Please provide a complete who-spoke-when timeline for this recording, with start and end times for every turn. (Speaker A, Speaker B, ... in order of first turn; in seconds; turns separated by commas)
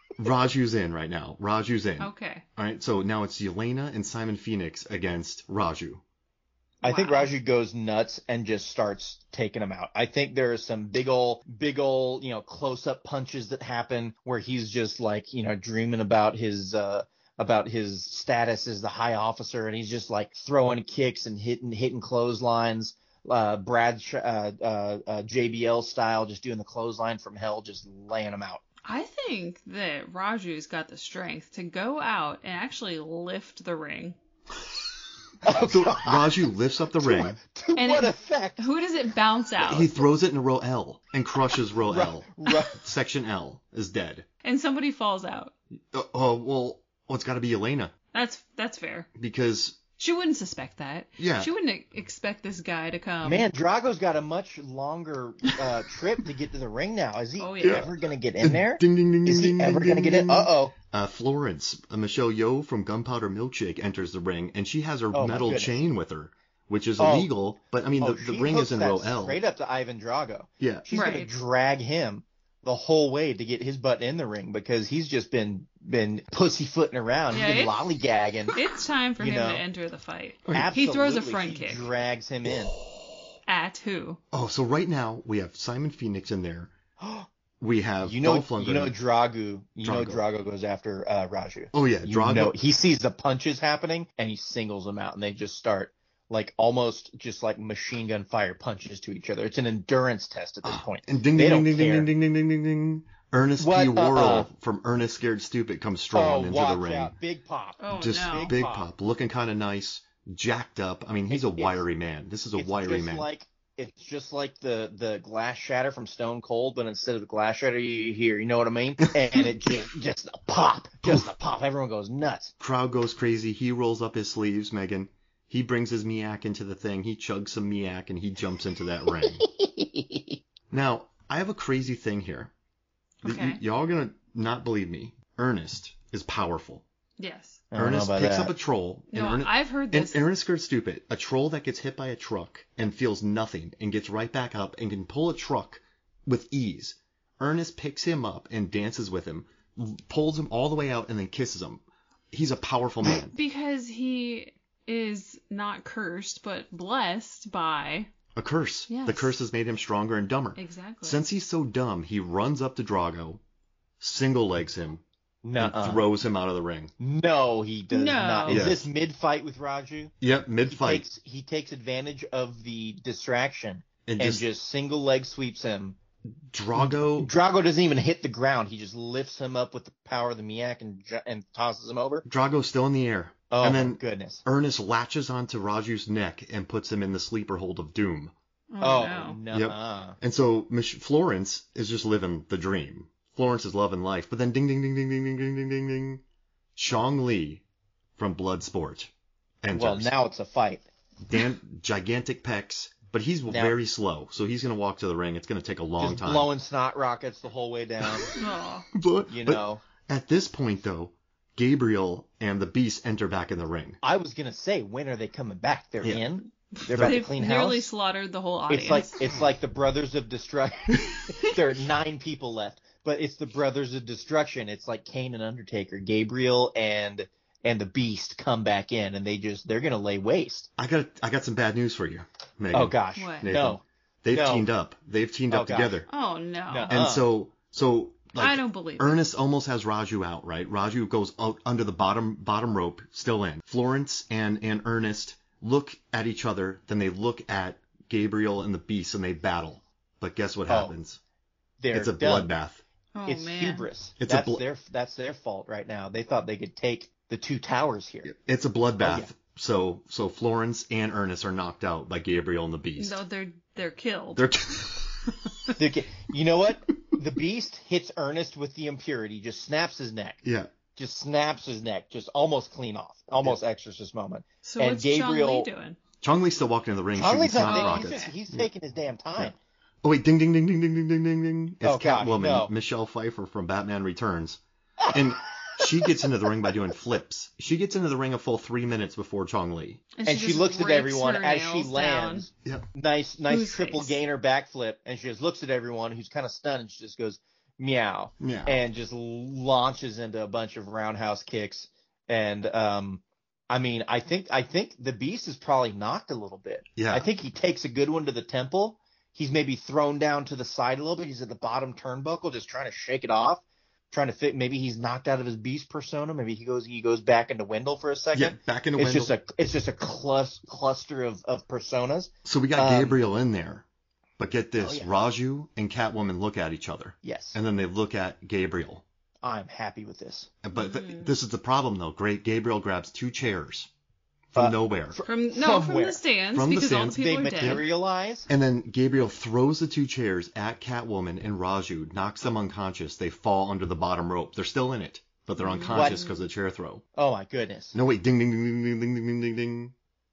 Speaker A: 0.2-6.0, Speaker B: 2.0-2.5, Speaker B: 6.8-7.3, Speaker C: 6.8-28.6, Speaker B: 28.9-34.2, Speaker C: 35.4-36.3, Speaker A: 35.5-37.4, Speaker C: 37.0-38.6, Speaker B: 37.8-40.0, Speaker A: 39.6-44.3, Speaker C: 41.9-42.8, Speaker B: 44.4-45.5, Speaker A: 45.9-47.9, Speaker B: 48.1-49.1, Speaker A: 49.2-49.8, Speaker B: 50.0-53.5, Speaker A: 51.2-51.5, Speaker C: 53.2-60.7, Speaker B: 57.4-57.9, Speaker A: 57.6-57.9, Speaker A: 58.4-69.4, Speaker C: 65.1-65.8, Speaker C: 67.0-67.3, Speaker C: 68.0-78.5, Speaker A: 70.6-70.9, Speaker B: 70.9-71.3, Speaker B: 77.3-77.9, Speaker B: 78.5-82.0, Speaker C: 79.2-79.6, Speaker C: 80.5-82.7, Speaker B: 83.5-84.2, Speaker A: 84.3-86.7, Speaker C: 87.0-87.3, Speaker A: 87.6-89.0, Speaker C: 88.0-102.1, Speaker A: 89.8-90.2, Speaker A: 91.7-92.5, Speaker A: 100.6-107.1, Speaker C: 103.6-104.5, Speaker C: 106.1-108.9, Speaker B: 107.8-108.5, Speaker A: 107.9-113.3, Speaker C: 111.3-111.8, Speaker C: 112.6-122.5, Speaker A: 122.6-129.4, Speaker C: 129.5-130.4, Speaker A: 130.7-132.5, Speaker B: 133.2-133.6, Speaker A: 133.2-136.8, Speaker B: 137.2-137.7, Speaker C: 137.7-138.5, Speaker A: 137.8-153.4, Speaker B: 139.1-140.2, Speaker B: 153.3-158.1, Speaker A: 158.3-163.4, Speaker B: 158.9-159.3, Speaker B: 160.6-161.2, Speaker A: 164.0-165.0, Speaker C: 165.4-166.1, Speaker A: 165.6-166.9, Speaker C: 167.0-170.1, Speaker B: 167.9-168.7, Speaker A: 168.5-168.9, Speaker A: 170.2-171.1, Speaker C: 170.7-176.0, Speaker A: 174.1-174.5, Speaker A: 176.5-177.3, Speaker C: 176.8-182.2, Speaker A: 182.3-188.3, Speaker C: 183.5-184.4, Speaker B: 188.7-189.4, Speaker C: 188.8-190.2, Speaker A: 189.5-196.2, Speaker A: 196.8-197.6, Speaker A: 198.2-199.1, Speaker A: 199.6-200.1, Speaker C: 199.7-200.9, Speaker A: 201.3-206.5, Speaker C: 203.5-203.8, Speaker C: 206.0-208.3, Speaker A: 208.0-208.3, Speaker B: 208.3-208.9, Speaker A: 209.0-214.0, Speaker C: 209.3-209.8, Speaker C: 214.0-217.9, Speaker B: 216.8-219.2, Speaker A: 216.9-217.2, Speaker C: 218.7-230.7, Speaker A: 230.8-236.1, Speaker C: 232.7-234.7, Speaker B: 233.2-233.5, Speaker C: 235.5-236.0, Speaker B: 236.1-236.9, Speaker C: 236.7-237.3, Speaker A: 236.9-251.2, Speaker B: 238.4-239.2, Speaker C: 250.7-250.9, Speaker C: 251.8-252.5, Speaker A: 251.9-252.8, Speaker B: 253.2-253.9, Speaker C: 253.3-258.3, Speaker A: 254.2-254.6, Speaker A: 258.2-263.2, Speaker C: 259.0-259.3, Speaker B: 263.0-264.4, Speaker A: 264.4-265.3, Speaker C: 265.8-270.4, Speaker A: 270.4-270.7, Speaker C: 271.0-275.7, Speaker B: 274.6-276.0, Speaker A: 276.2-278.7, Speaker C: 277.2-279.6, Speaker B: 277.7-278.2, Speaker A: 279.4-290.0, Speaker C: 281.8-282.7, Speaker B: 290.2-292.5, Speaker C: 290.2-323.2, Speaker B: 293.5-294.2, Speaker A: 298.4-298.8, Speaker A: 307.0-307.3, Speaker A: 318.3-319.3, Speaker A: 322.4-323.9, Speaker A: 324.4-329.0, Speaker C: 324.8-325.1, Speaker C: 327.2-327.6, Speaker C: 329.4-330.5, Speaker A: 330.6-333.9, Speaker B: 330.7-331.3, Speaker A: 334.5-335.2, Speaker C: 334.6-336.2, Speaker B: 335.3-337.9, Speaker A: 336.5-337.8, Speaker C: 337.2-338.5, Speaker A: 338.5-347.0, Speaker B: 345.6-346.4, Speaker C: 345.9-346.2, Speaker C: 347.2-348.0, Speaker A: 347.9-349.9